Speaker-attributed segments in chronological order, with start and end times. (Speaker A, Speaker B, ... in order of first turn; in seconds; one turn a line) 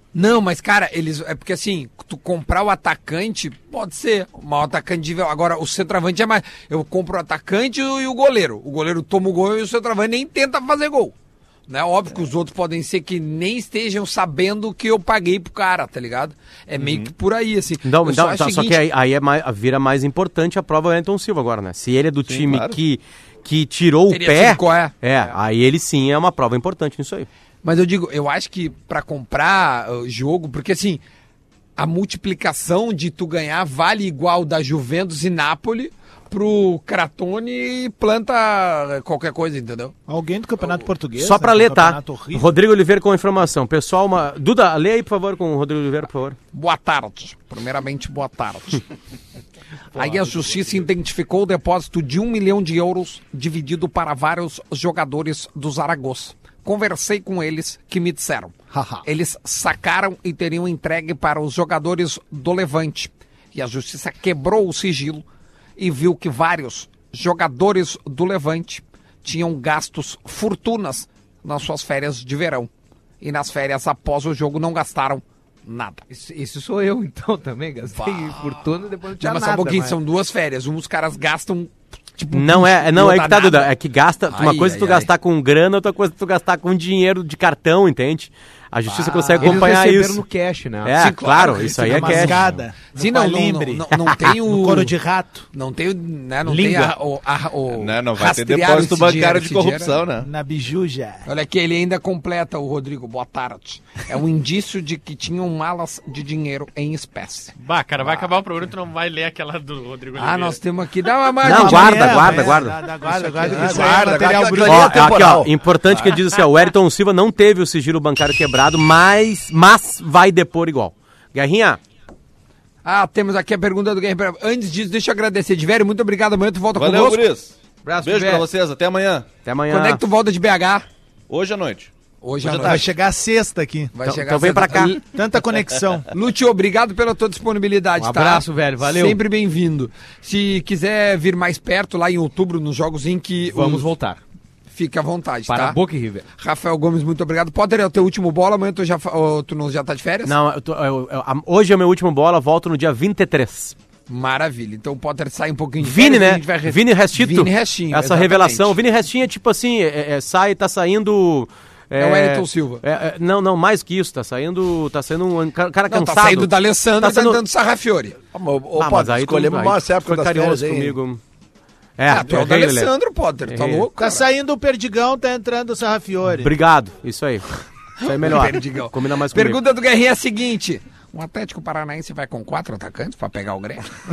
Speaker A: 0.1-11.1
Speaker A: 11.7-18.8
Speaker B: 16.8-17.1
Speaker C: 17.8-27.3
Speaker B: 22.3-22.8
Speaker A: 24.1-24.9
Speaker A: 27.6-31.0
Speaker A: 31.8-39.9
Speaker D: 40.1-42.5
Speaker C: 41.2-46.4
Speaker A: 46.5-48.8
Speaker A: 49.9-65.2
Speaker A: 65.8-72.7
Speaker A: 73.2-76.0
Speaker E: 76.1-80.0
Speaker A: 77.9-83.7
Speaker C: 82.3-90.2
Speaker A: 84.3-85.1
Speaker A: 88.9-89.7
Speaker E: 89.3-91.0
Speaker C: 90.8-92.4
Speaker A: 90.9-94.9
Speaker D: 91.9-95.5
Speaker A: 95.5-100.0
Speaker E: 96.5-96.9
Speaker B: 97.7-100.3
Speaker D: 100.2-101.3
Speaker A: 101.2-107.5
Speaker F: 107.6-110.6
Speaker A: 110.2-112.6
Speaker C: 111.4-112.8
Speaker D: 111.4-115.0
Speaker A: 113.1-114.0
Speaker E: 113.4-113.7
Speaker G: 113.6-115.6
Speaker C: 114.6-121.8
Speaker A: 122.8-127.3
Speaker B: 126.7-129.3
Speaker E: 127.8-128.4
Speaker C: 129.4-130.0
Speaker A: 129.7-130.9
Speaker B: 131.3-131.9
Speaker A: 132.2-132.9
Speaker D: 132.4-133.9
Speaker B: 132.5-132.8
Speaker A: 133.9-135.0
Speaker C: 134.0-135.0
Speaker D: 135.1-136.1
Speaker A: 136.1-143.9
Speaker E: 138.0-139.2
Speaker E: 143.5-144.2
Speaker A: 144.7-145.8
Speaker E: 145.5-146.2
Speaker A: 146.4-150.3
Speaker C: 150.2-153.7
Speaker A: 154.1-158.8
Speaker C: 155.8-167.4
Speaker A: 161.9-162.8
Speaker A: 165.9-168.2
Speaker G: 168.3-171.0
Speaker C: 168.8-171.2
Speaker C: 172.0-172.9
Speaker A: 172.1-174.2
Speaker C: 173.5-173.9
Speaker D: 174.0-176.5
Speaker C: 176.4-179.6
Speaker A: 178.0-183.8